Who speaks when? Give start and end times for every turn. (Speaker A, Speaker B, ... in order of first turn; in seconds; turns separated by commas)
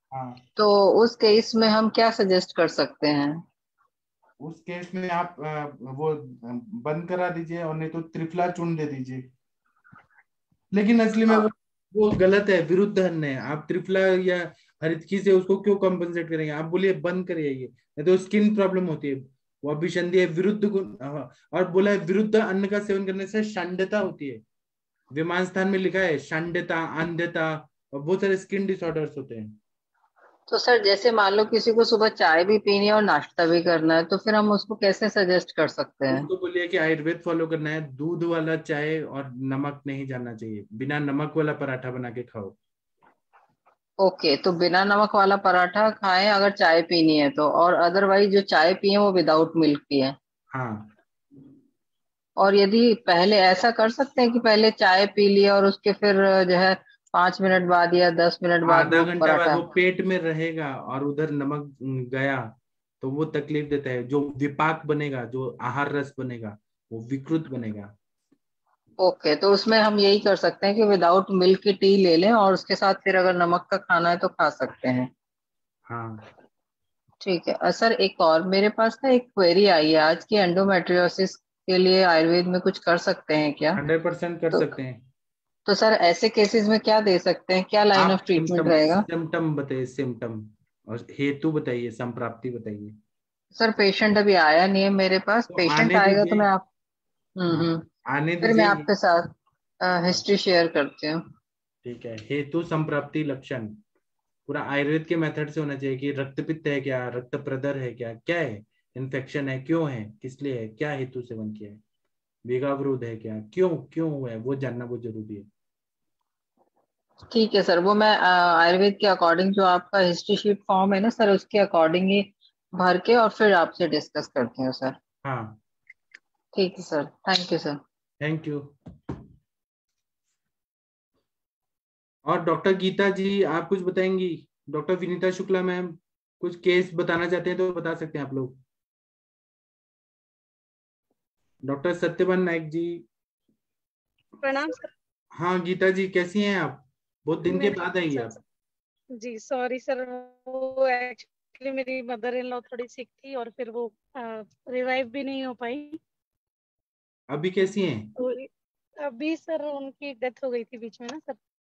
Speaker A: 0.1-0.4, Speaker B: 0.6-3.4, Speaker A: 4.4-9.3, Speaker A: 10.7-24.4, Speaker A: 25.1-29.6, Speaker B: 30.5-36.3, Speaker A: 36.1-42.6, Speaker B: 44.0-50.1, Speaker A: 50.5-50.9, Speaker B: 52.4-59.7, Speaker A: 58.6-67.9, Speaker B: 69.0-75.1, Speaker A: 75.9-76.2, Speaker B: 77.2-83.8, Speaker A: 83.8-85.0, Speaker B: 85.7-89.1, Speaker A: 88.0-93.0, Speaker B: 93.6-96.6, Speaker A: 95.5-96.5, Speaker B: 97.4-97.8, Speaker A: 97.5-98.9, Speaker B: 98.4-99.3, Speaker B: 99.8-101.2, Speaker A: 101.8-103.8, Speaker A: 104.5-111.8, Speaker A: 112.5-115.5, Speaker B: 117.3-125.0, Speaker A: 125.2-125.6, Speaker B: 126.5-127.8, Speaker A: 128.2-128.7, Speaker A: 132.3-138.6, Speaker A: 141.6-143.1, Speaker C: 144.4-144.9, Speaker A: 145.3-148.4, Speaker C: 147.5-148.4, Speaker C: 149.2-156.0, Speaker A: 157.3-158.1, Speaker C: 158.2-158.5, Speaker C: 159.0-161.4